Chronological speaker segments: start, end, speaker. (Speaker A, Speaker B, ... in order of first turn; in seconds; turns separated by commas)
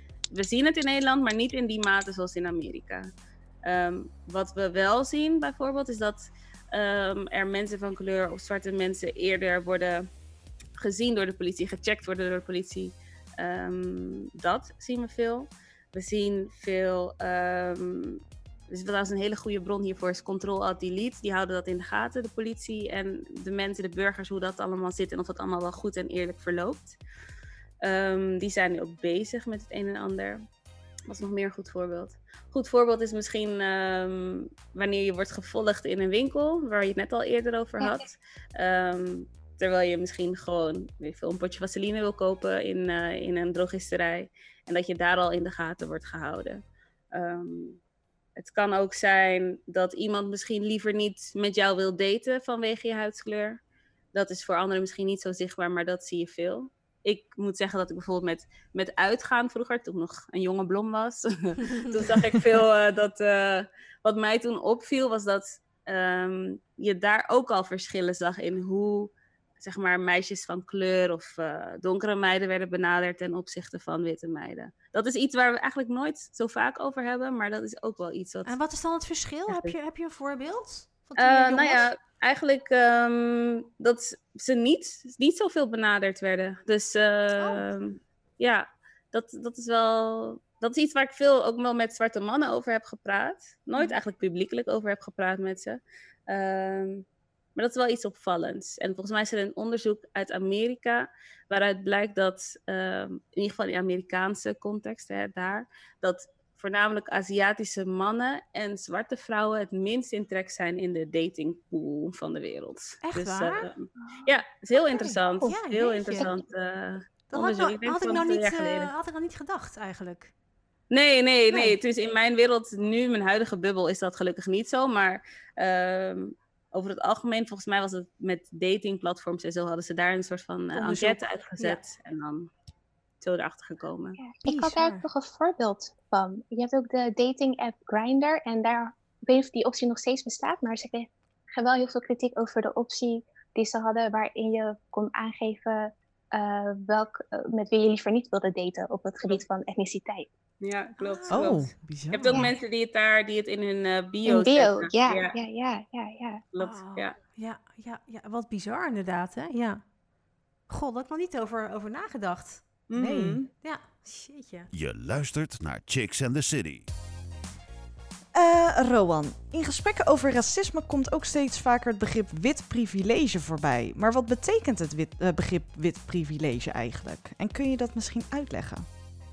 Speaker A: 0.3-3.0, Speaker A: 3.6-10.1, Speaker A: 10.8-26.9, Speaker A: 27.8-30.4, Speaker A: 31.1-46.6, Speaker A: 47.1-47.8, Speaker A: 48.4-53.6, Speaker A: 54.1-78.5, Speaker B: 78.5-81.8, Speaker A: 81.2-97.0, Speaker B: 87.4-87.6, Speaker A: 97.5-118.9, Speaker B: 113.0-113.7, Speaker B: 115.0-116.3, Speaker B: 117.3-120.3, Speaker A: 120.9-132.5, Speaker B: 121.5-121.7, Speaker B: 130.7-131.8, Speaker A: 133.2-134.2, Speaker C: 134.2-150.3, Speaker B: 134.4-135.0, Speaker A: 150.6-155.3, Speaker B: 151.0-151.6, Speaker D: 151.3-152.5, Speaker C: 154.2-156.4, Speaker A: 156.5-157.2, Speaker B: 156.6-159.8, Speaker B: 160.7-162.7, Speaker A: 162.9-163.5, Speaker D: 162.9-163.4, Speaker B: 163.6-164.7, Speaker E: 164.7-166.8, Speaker D: 168.3-178.8